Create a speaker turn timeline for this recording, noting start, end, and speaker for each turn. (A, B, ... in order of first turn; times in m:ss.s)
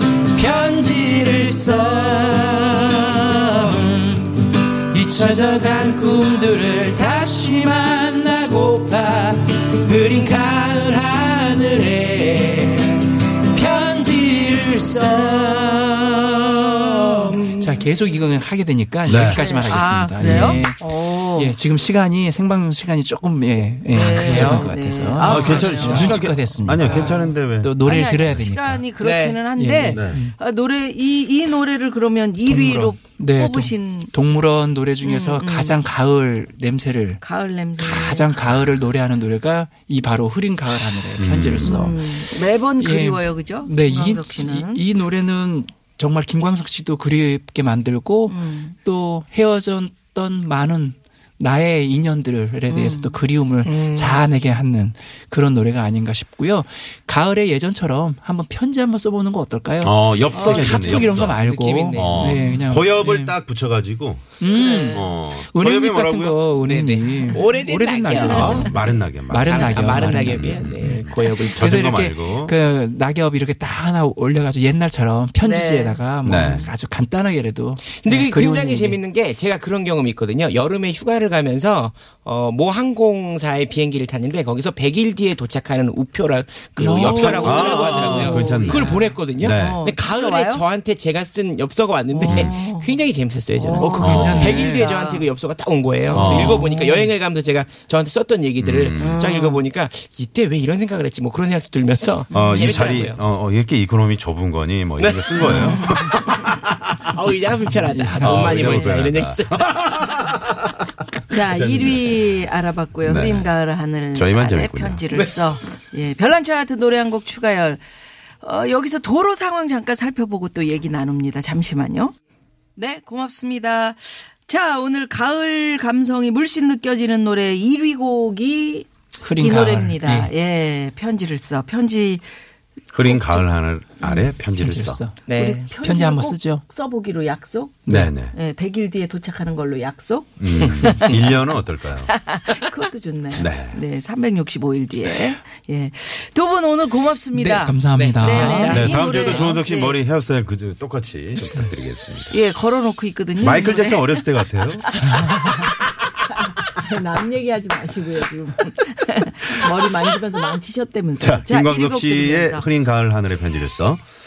0:00.4-0:12.7 A
0:00.5-0:03.1 B
0:05.8-0:06.1 B
0:09.8-0:12.8 B
0:13.5-0:28.8 A
0:14.7-0:15.8 B
0:17.0-0:17.8 B
0:19.0-0:19.4 C
0:19.2-0:21.6 D
0:20.2-0:20.6 C
0:23.9-0:24.7 B
0:23.9-0:27.3 D
0:25.2-0:27.8 C
0:26.8-0:27.1 B
0:27.8-0:34.1 D
0:29.0-0:29.4 B
0:29.6-0:30.3 A
0:29.9-0:30.2 C
0:32.4-0:37.2 A
0:35.0-0:35.8 D
0:37.2-0:38.4 D
0:37.8-0:42.1 A
0:41.2-0:41.8 C
0:41.6-0:44.8 D
0:42.8-1:03.4 A
0:48.3-0:48.8 D
0:52.7-0:53.2 D
0:53.6-0:54.2 B
0:59.8-1:01.4 C
1:00.3-1:01.1 D
1:00.6-1:02.5 B
1:01.9-1:06.4 C
1:04.4-1:19.0 A
1:04.4-1:05.1 D
1:06.6-1:08.8 B
1:08.2-1:12.5 C
1:09.3-1:12.0 B
1:15.4-1:16.7 D
1:16.2-1:16.7 C
1:18.0-1:43.2 B
1:26.8-1:28.3 A
1:26.9-1:30.6 D
1:27.3-1:29.8 C
1:32.1-1:33.0 D
1:32.3-1:32.6 C
1:33.5-1:35.3 D
1:33.7-1:34.9 A
1:34.0-1:34.6 C
1:36.1-1:36.7 C
1:36.1-1:37.1 D
1:38.6-1:39.2 C
1:39.0-1:39.6 D
1:42.3-1:42.9 D
1:42.3-1:47.1 C
1:45.0-1:46.4 B
1:45.4-1:45.8 D
1:47.0-1:49.9 B
1:47.8-1:48.6 A
1:48.2-1:50.8 C
1:48.6-1:49.0 D
1:51.3-1:57.8 D
1:51.3-1:52.4 C
1:53.0-1:53.5 C
1:54.1-1:55.0 C
1:58.4-2:02.1 D
2:02.8-2:12.2 D
2:09.2-2:10.3 A
2:12.9-2:15.0 C
2:13.0-2:13.5 D
2:14.0-2:14.3 D
2:14.6-2:15.2 A
2:15.3-2:15.7 B
2:15.3-2:21.4 D
2:15.8-2:16.6 A
2:17.9-2:18.3 C
2:20.4-2:22.2 C
2:22.1-2:30.0 D
2:23.3-2:23.8 C
2:27.3-2:29.4 A
2:27.9-2:29.4 B
2:28.7-2:32.4 C
2:32.3-2:35.8 D
2:33.4-2:34.9 C
2:36.5-2:42.7 D
2:41.2-2:44.0 C